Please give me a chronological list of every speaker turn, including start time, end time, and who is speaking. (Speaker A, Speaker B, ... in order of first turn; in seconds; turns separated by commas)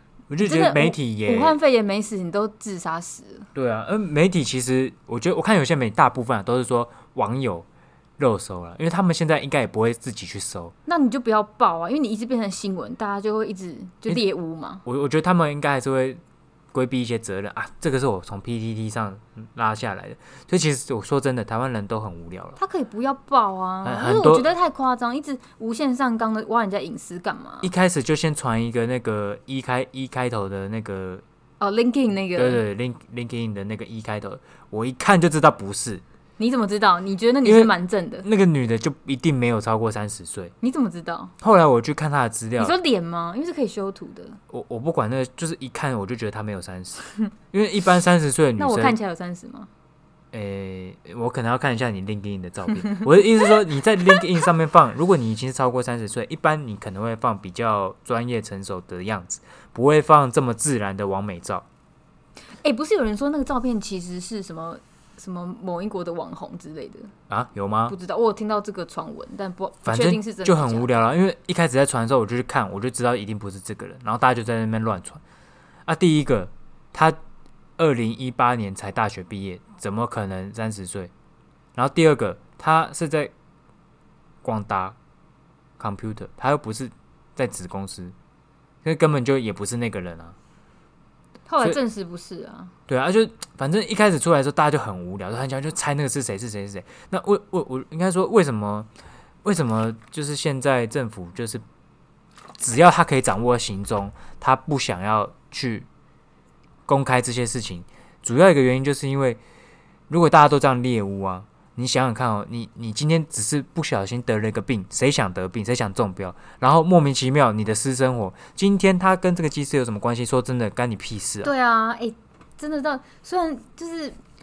Speaker A: 0.3-1.6, Speaker B: 0.4-3.5, Speaker A: 3.5-7.7, Speaker A: 8.2-10.7, Speaker B: 10.9-14.8, Speaker A: 14.8-16.2, Speaker A: 16.7-22.6, Speaker B: 22.6-27.7, Speaker A: 23.9-24.5, Speaker A: 27.6-31.2, Speaker B: 31.6-32.6, Speaker A: 32.4-36.0, Speaker B: 36.4-38.3, Speaker A: 37.5-40.5, Speaker B: 40.6-41.3, Speaker A: 41.4-42.8, Speaker B: 42.6-44.4, Speaker A: 44.5-49.0, Speaker B: 48.6-49.7, Speaker A: 50.3-61.6, Speaker B: 62.6-67.1, Speaker A: 67.3-68.0, Speaker B: 67.9-70.9, Speaker A: 69.8-75.2, Speaker A: 75.9-77.2, Speaker A: 77.8-81.1, Speaker A: 81.8-83.3, Speaker A: 84.4-85.0, Speaker A: 85.8-88.1, Speaker A: 88.8-90.4, Speaker B: 91.5-92.7, Speaker A: 92.9-98.9, Speaker A: 99.4-101.6, Speaker A: 102.6-105.9, Speaker A: 106.9-109.4, Speaker A: 110.1-121.5, Speaker B: 121.4-124.2